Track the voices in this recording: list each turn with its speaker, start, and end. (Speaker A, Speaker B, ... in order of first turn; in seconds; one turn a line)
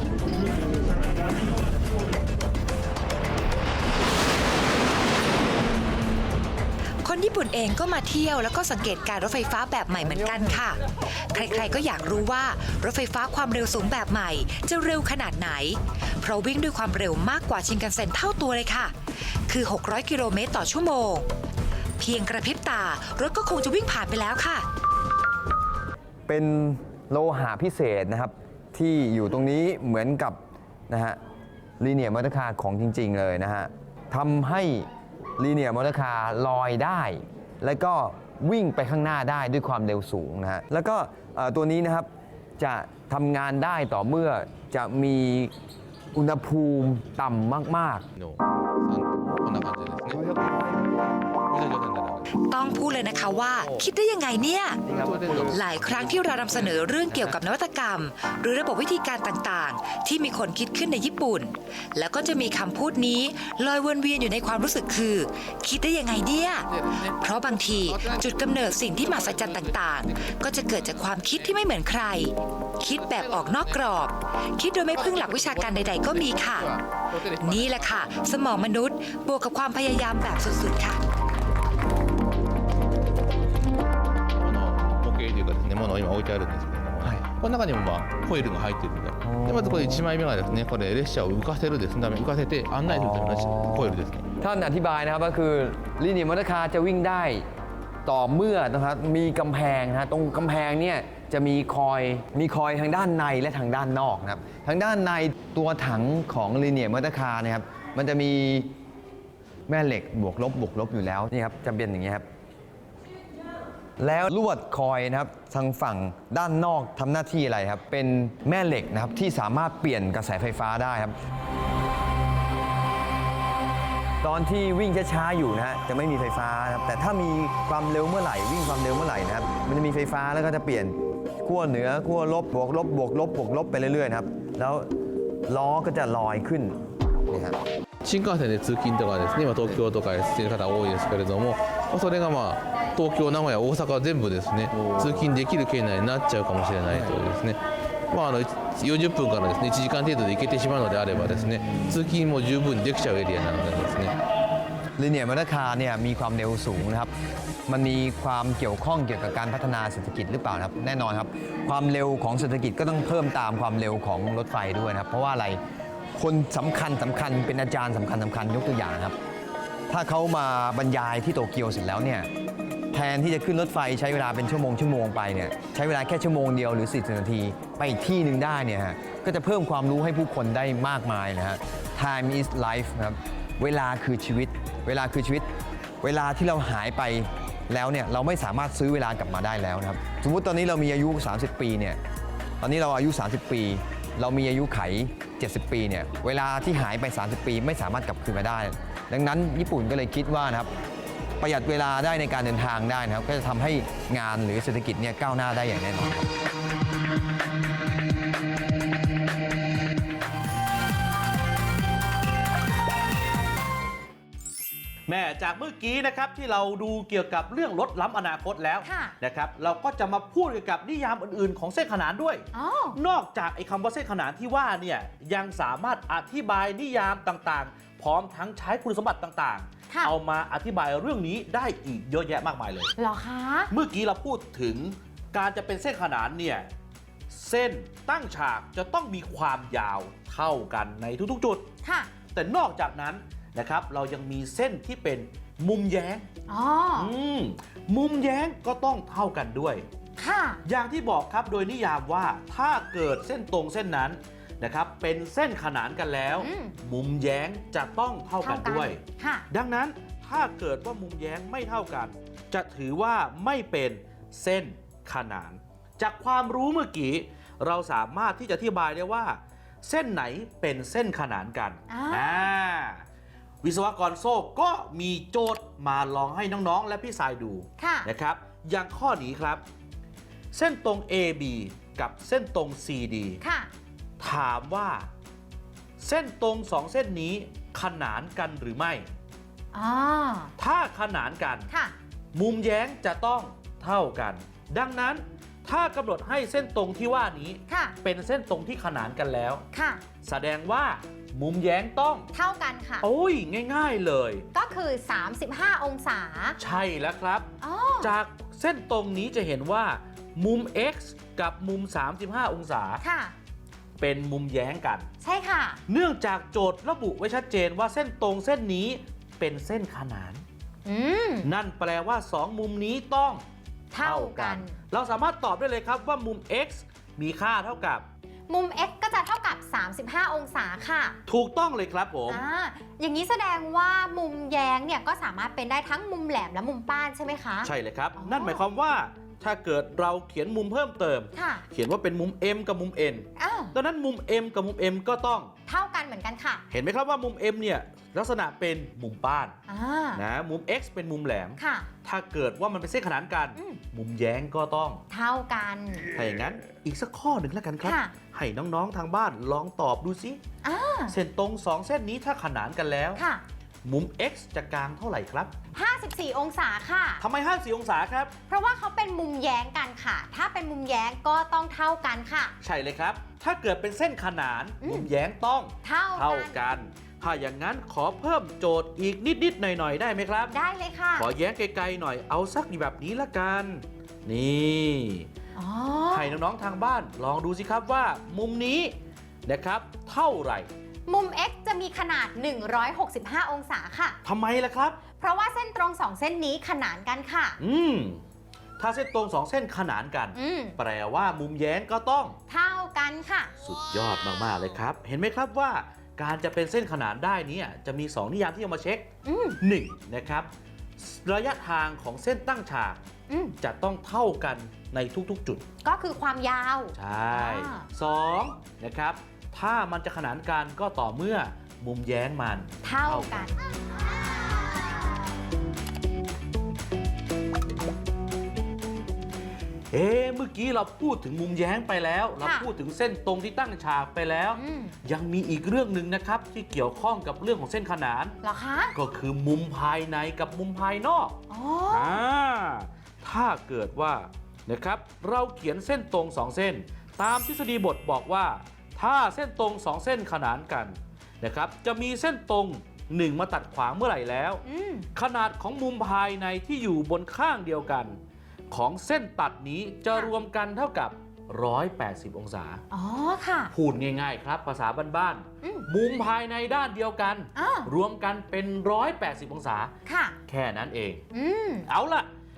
Speaker A: 7.0-18.9
Speaker B: 10.0-10.7
Speaker B: 11.4-11.9
Speaker A: 19.5-21.3
Speaker A: 22.0-24.7
Speaker B: 26.3-31.2
Speaker B: 31.8-45.5
Speaker B: 46.1-48.1
Speaker C: 48.2-50.5
Speaker B: 50.1-50.6
Speaker C: 51.5-52.3
Speaker A: 52.5-54.8
Speaker B: 54.9-55.6
Speaker C: 54.9-56.0
Speaker A: 55.5-81.0
Speaker C: 84.4-94.2
Speaker B: 89.3-90.0
Speaker B: 92.9-97.5
Speaker B: 98.0-108.7
Speaker B: 109.7-112.3
Speaker B: 114.0-121.2
Speaker B: 124.2-134.9
Speaker B: 135.5-137.6
Speaker C: 138.0-147.6
Speaker B: 144.8-145.3
Speaker B: 146.9-147.2
Speaker C: 148.1-154.2
Speaker B: 155.0-157.1
Speaker B: 157.7-165.6
Speaker B: 166.2-169.2
Speaker B: 169.9-172.3
Speaker B: 172.9-185.5
Speaker B: 186.0-192.0
Speaker B: 192.6-200.7
Speaker B: 201.4-206.2
Speaker D: 215.1-232.9
Speaker E: 218.8-219.2
Speaker E: 222.5-223.0
Speaker E: 233.0-233.7
Speaker D: 233.7-236.7
Speaker D: 237.3-241.7
Speaker E: 241.8-242.1
Speaker D: 242.3-246.3
Speaker E: 246.5-247.1
Speaker D: 246.9-249.9
Speaker E: 250.2-250.6
Speaker D: 250.7-273.0
Speaker E: 256.4-256.8
Speaker E: 258.4-259.5
Speaker E: 271.9-272.5
Speaker D: 273.6-279.6
Speaker E: 277.8-278.1
Speaker D: 280.5-283.4
Speaker E: 283.4-283.7
Speaker D: 284.2-285.1
Speaker D: 286.0-289.1
Speaker E: 289.7-290.5
Speaker D: 290.6-291.7
Speaker E: 291.7-291.9
Speaker D: 292.3-299.6
Speaker E: 297.7-298.0
Speaker E: 299.7-300.0
Speaker D: 300.2-302.3
Speaker E: 302.3-303.1
Speaker D: 303.0-304.5
Speaker E: 304.5-306.6
Speaker D: 306.6-307.5
Speaker E: 307.6-308.1
Speaker D: 308.0-313.0
Speaker E: 313.0-313.3
Speaker D: 314.0-315.1
Speaker E: 315.2-315.8
Speaker D: 315.9-320.4
Speaker E: 320.9-321.5
Speaker D: 321.4-323.4
Speaker E: 323.9-324.8
Speaker D: 324.0-328.1
Speaker E: 328.5-331.2
Speaker D: 331.3-332.4
Speaker E: 332.3-338.6
Speaker D: 337.6-345.5
Speaker E: 341.4-341.6
Speaker E: 343.4-343.8
Speaker E: 345.7-346.6
Speaker D: 346.7-349.6
Speaker E: 349.7-350.2
Speaker D: 350.1-355.0
Speaker E: 351.6-351.9
Speaker E: 353.6-353.8
Speaker E: 355.1-356.1
Speaker D: 356.1-360.4
Speaker E: 357.8-358.1
Speaker E: 360.6-361.1
Speaker D: 361.1-363.2
Speaker E: 363.2-363.4
Speaker D: 363.9-365.5
Speaker E: 365.8-367.2
Speaker D: 367.2-368.3
Speaker E: 368.5-372.5
Speaker D: 372.6-380.5
Speaker E: 374.8-375.1
Speaker E: 375.8-376.6
Speaker E: 380.5-381.3
Speaker D: 381.1-385.3
Speaker E: 385.6-386.4
Speaker D: 386.1-388.9
Speaker D: 389.5-390.7
Speaker E: 391.1-394.2
Speaker D: 394.2-395.0
Speaker E: 395.2-397.6
Speaker D: 397.6-398.2
Speaker D: 398.8-402.4
Speaker E: 400.4-400.8
Speaker E: 402.5-403.6
Speaker D: 403.6-409.1
Speaker E: 409.2-409.6
Speaker D: 409.6-410.5
Speaker D: 411.0-413.0
Speaker E: 413.3-413.6
Speaker D: 413.6-415.6
Speaker E: 415.8-417.9
Speaker D: 416.9-423.5
Speaker E: 422.8-423.6
Speaker D: 429.9-438.4
Speaker E: 432.4-432.7
Speaker E: 434.6-435.0
Speaker E: 438.4-438.9
Speaker D: 438.9-454.6
Speaker E: 441.5-442.2
Speaker E: 454.7-455.1
Speaker D: 455.1-458.2
Speaker D: 458.7-462.8
Speaker E: 462.9-463.7
Speaker D: 463.7-469.9
Speaker E: 465.6-465.9
Speaker E: 467.6-467.9
Speaker E: 470.1-470.4
Speaker D: 470.5-471.2
Speaker E: 471.3-471.9
Speaker D: 471.9-472.3